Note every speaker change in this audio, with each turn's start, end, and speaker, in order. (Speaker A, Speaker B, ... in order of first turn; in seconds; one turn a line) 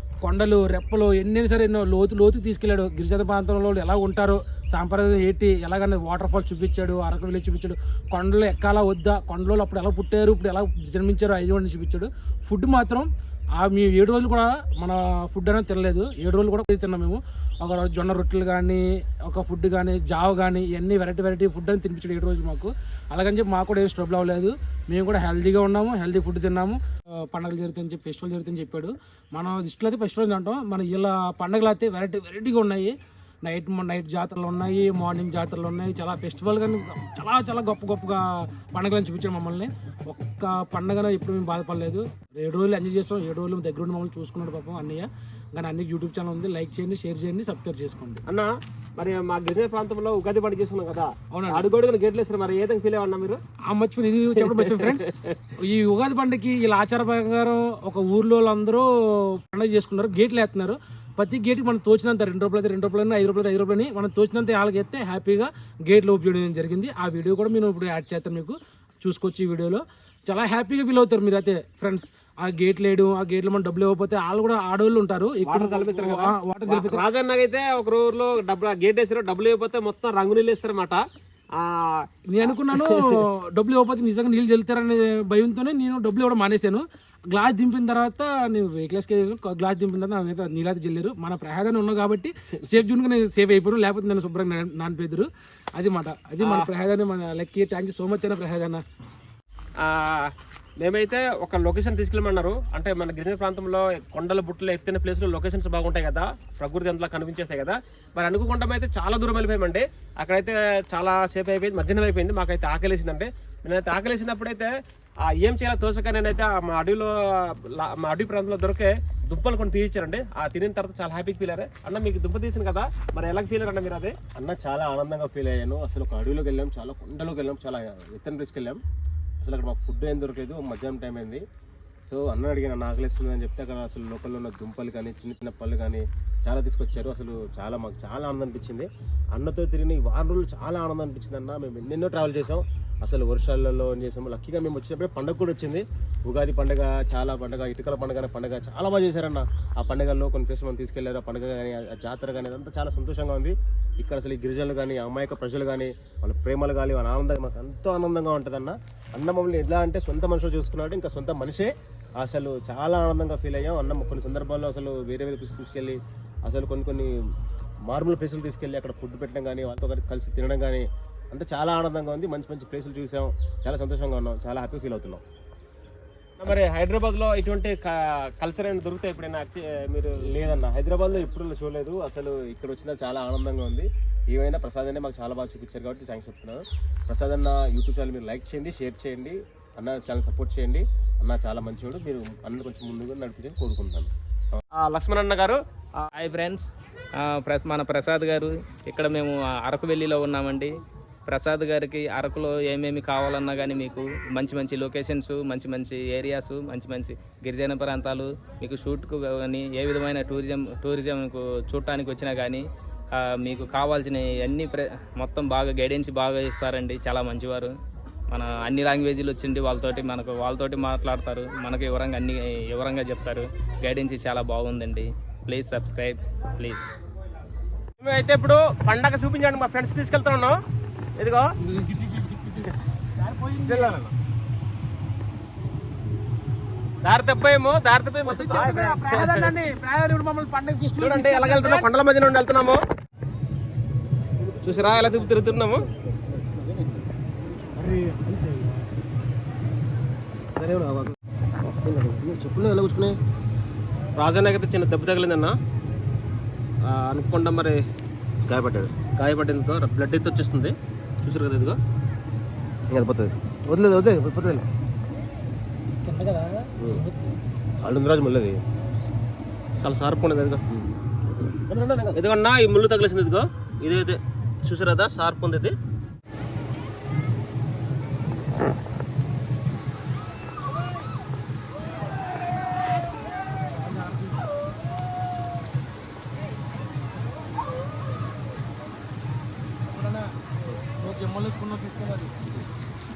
Speaker A: 0.2-32.9
Speaker A: 33.4-38.2
Speaker A: 38.7-48.2
Speaker B: 48.3-53.4
Speaker A: 51.3-51.7
Speaker A: 53.7-77.0
Speaker B: 75.4-81.0
Speaker B: 81.6-82.0
Speaker A: 82.3-98.8
Speaker B: 82.7-83.0
Speaker B: 96.4-96.7
Speaker B: 99.8-114.7
Speaker B: 115.2-124.2
Speaker C: 124.3-128.8
Speaker C: 129.4-131.4
Speaker C: 132.1-167.1
Speaker C: 167.9-175.2
Speaker B: 176.4-180.3
Speaker C: 180.3-194.6
Speaker B: 194.8-196.1
Speaker D: 196.1-200.7
Speaker D: 201.3-212.6
Speaker D: 213.2-217.7
Speaker D: 218.3-226.8
Speaker B: 228.0-230.6
Speaker B: 231.2-231.4
Speaker A: 231.6-234.0
Speaker C: 233.7-234.1
Speaker B: 237.0-239.5
Speaker A: 238.3-241.9
Speaker B: 241.0-242.8
Speaker C: 244.4-245.3
Speaker B: 244.6-245.8
Speaker C: 246.3-247.0
Speaker C: 247.7-248.2
Speaker C: 250.6-253.2
Speaker B: 254.2-255.5
Speaker B: 256.8-257.8
Speaker C: 258.5-258.9
Speaker B: 259.1-261.8
Speaker C: 262.9-264.6
Speaker A: 266.0-267.3
Speaker C: 267.8-268.6
Speaker B: 269.8-270.6
Speaker C: 271.5-272.2
Speaker B: 272.2-275.8
Speaker A: 283.7-284.5
Speaker A: 289.9-290.3
Speaker A: 291.0-292.6